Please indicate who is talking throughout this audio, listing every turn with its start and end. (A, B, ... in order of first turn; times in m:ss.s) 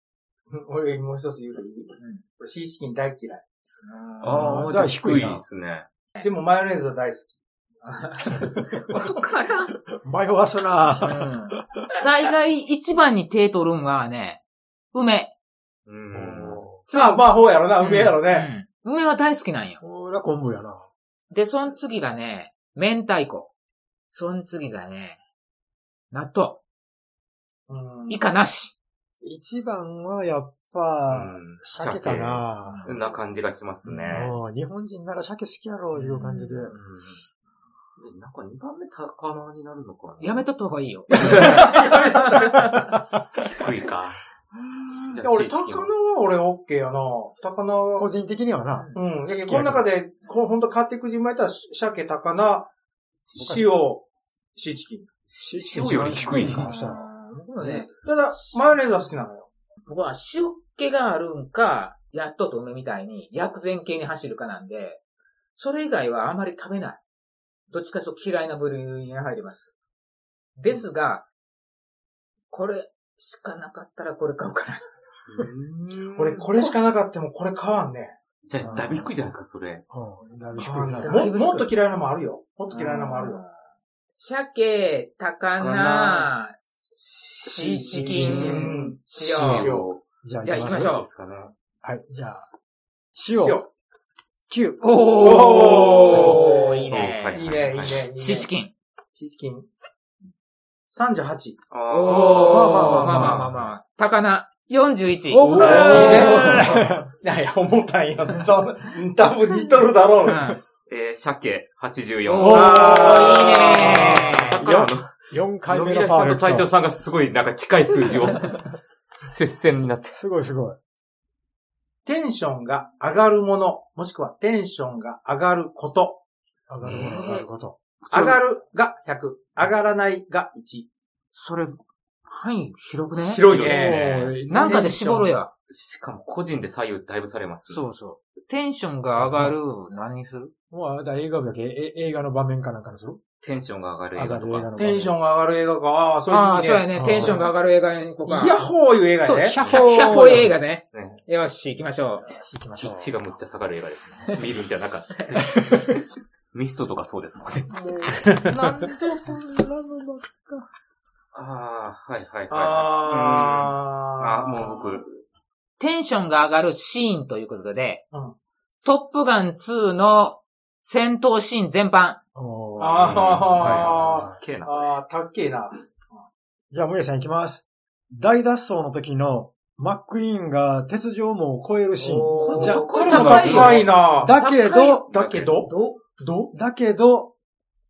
0:00.5-0:03.4 A
0:02.0-0:02.2 B
0:03.8-0:04.6 B
0:04.2-0:05.8 C
0:04.3-0:05.4 D
0:06.2-0:07.3 A
0:07.8-0:09.7 B
0:09.9-0:11.9 D
0:11.0-0:14.4 B
0:14.9-0:15.3 B
0:15.9-0:16.6 C
0:16.1-0:16.8 D
0:16.9-0:17.3 B
0:16.9-0:18.5 A
0:17.8-0:19.8 B
0:19.8-0:20.8 D
0:21.3-0:23.5 B
0:24.1-0:25.2 B
0:26.1-0:26.6 B
0:27.7-0:28.2 A
0:28.1-0:28.7 B
0:29.2-0:32.9 D
0:31.1-0:34.3 C
0:32.6-0:32.9 B
0:34.0-0:36.7 D
0:35.9-0:37.2 C
0:38.0-0:40.4 C
0:40.2-0:42.8 B
0:41.1-0:41.9 C
0:41.2-0:42.7 A
0:41.4-0:41.6 D
0:43.5-0:44.2 C
0:45.1-0:45.9 C
0:45.2-0:48.1 A
0:48.0-0:49.9 D
0:48.7-0:49.0 B
0:49.0-0:52.7 A
0:53.3-0:55.1 A
0:53.4-0:53.7 D
0:55.3-0:57.0 D
0:55.5-0:56.7 C
0:56.2-0:58.6 B
0:57.6-0:59.5 A
0:59.9-1:05.0 B
1:05.5-1:07.0 B
1:07.7-1:09.7 B
1:10.6-1:11.2 B
1:12.5-1:14.8 B
1:15.3-1:16.4 C
1:16.2-1:18.1 A
1:18.4-1:19.8 C
1:18.6-1:19.1 D
1:19.9-1:21.3 D
1:20.6-1:23.4 A
1:21.0-1:21.7 B
1:22.8-1:23.3 B
1:24.2-1:26.6 B
1:25.6-1:30.0 C
1:27.4-1:29.7 B
1:27.4-1:28.7 D
1:28.1-1:29.9 A
1:30.2-1:31.0 D
1:30.4-1:31.1 B
1:30.7-1:31.5 C
1:31.8-1:32.4 D
1:33.1-1:33.6 D
1:33.4-1:33.6 A
1:34.5-1:34.9 D
1:34.8-1:37.4 B
1:35.2-1:38.5 A
1:36.0-1:38.0 C
1:38.2-1:38.7 B
1:39.2-1:39.7 A
1:40.9-1:42.6 A
1:41.7-1:43.7 C
1:41.9-1:46.8 B
1:42.1-1:43.5 D
1:45.3-1:47.1 D
1:45.4-1:46.6 C
1:45.6-1:50.6 A
1:50.2-1:50.6 B
1:50.9-1:55.1 C
1:52.2-1:54.6 B
1:52.4-1:56.7 D
1:52.4-1:54.1 A
1:55.6-1:58.7 C
1:59.2-2:00.2 C
2:00.1-2:00.8 D
2:02.0-2:06.2 A
2:06.7-2:07.8 D
2:06.8-2:07.2 C
2:06.9-2:07.5 B
2:08.0-2:08.4 C
2:08.1-2:10.9 A
2:11.3-2:13.5 B
2:13.2-2:14.9 A
2:13.5-2:14.4 C
2:13.5-2:15.3 D
2:14.5-2:15.5 B
2:15.7-2:17.8 C
2:17.7-2:20.5 B
2:19.2-2:19.5 D
2:20.7-2:23.2 D
2:23.4-2:24.7 C
2:24.1-2:25.1 D
2:24.8-2:27.4 A
2:26.3-2:28.6 B
2:26.9-2:27.4 D
2:28.2-2:29.6 A
2:29.2-2:32.2 B
2:29.3-2:30.5 D
2:29.6-2:30.4 C
2:30.9-2:31.2 C
2:32.2-2:33.1 D
2:32.8-2:36.0 C
2:36.5-2:38.2 C
2:37.7-2:40.6 D
2:38.2-2:38.9 A
2:41.3-2:45.2 C
2:42.5-2:45.0 A
2:45.8-2:48.0 B
2:48.8-2:52.2 B
2:52.3-2:54.4 D
2:52.8-2:56.2 A
2:53.0-2:55.0 C
2:56.7-3:05.2 D
3:02.0-3:06.0 B
3:02.3-3:04.3 A
3:02.5-3:03.9 C
3:05.1-3:06.5 A
3:05.1-3:05.5 C
3:06.5-3:07.3 D